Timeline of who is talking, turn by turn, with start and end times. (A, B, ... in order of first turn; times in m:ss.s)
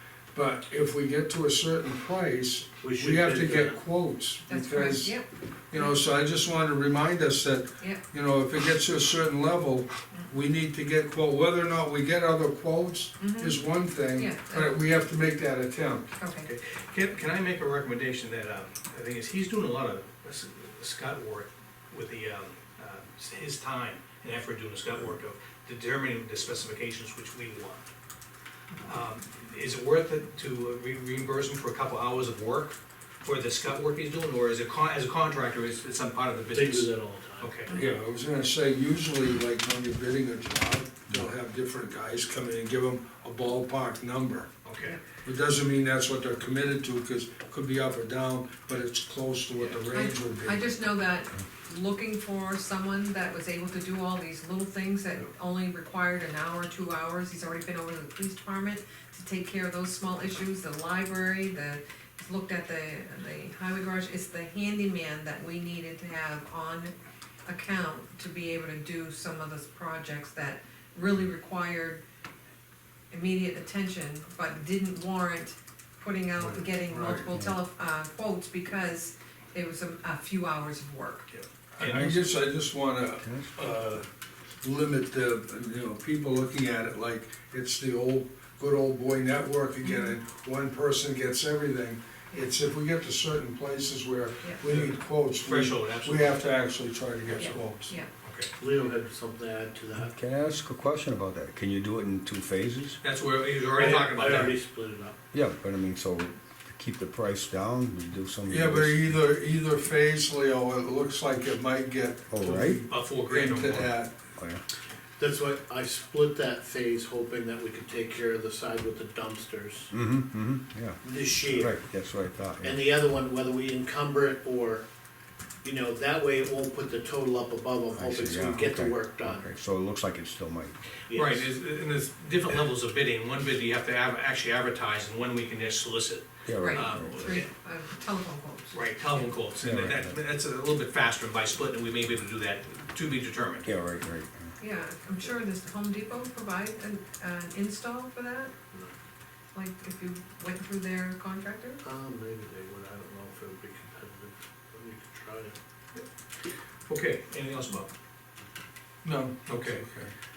0:00.3-0:05.2 A
0:02.8-0:03.8 B
0:04.4-0:06.0 C
0:05.7-0:16.1 A
0:13.2-0:13.6 C
0:14.1-0:14.8 C
0:16.1-0:16.5 C
0:16.4-0:27.9 D
0:28.8-0:37.7 D
0:36.5-0:37.5 B
0:37.7-0:44.5 A
0:44.6-0:45.0 D
0:45.2-0:50.8 A
0:49.9-1:06.9 C
1:07.4-1:12.0 C
1:13.1-1:21.3 C
1:16.4-1:17.2 A
1:17.2-1:17.6 E
1:21.3-1:22.3 D
1:21.8-1:24.1 A
1:21.9-1:22.2 E
1:23.2-1:23.6 E
1:24.6-1:38.0 A
1:29.8-1:30.1 C
1:34.7-1:36.4 D
1:37.4-1:38.1 C
1:38.2-1:38.5 D
1:38.6-1:40.1 B
1:40.0-1:43.0 E
1:43.0-1:44.5 D
1:43.7-1:45.2 B
1:45.3-1:49.1 E
1:48.5-1:54.3 A
1:52.3-1:52.8 E
1:52.9-1:53.9 D
1:54.3-1:54.6 E
1:55.2-1:59.9 B
1:59.9-2:02.8 E
2:01.0-2:01.8 B
2:02.6-2:04.8 B
2:05.6-2:09.5 B
2:07.9-2:10.8 E
2:11.1-2:11.5 B
2:11.1-2:17.5 D
2:16.4-2:17.3 E
2:16.6-2:19.4 C
2:18.7-2:23.7 D
2:19.6-2:20.2 E
2:23.6-2:24.5 E
2:24.6-2:28.5 C
2:29.5-2:31.8 C
2:31.8-2:35.6 B
2:36.8-2:37.9 D
2:39.0-2:40.1 A
2:39.4-2:39.8 D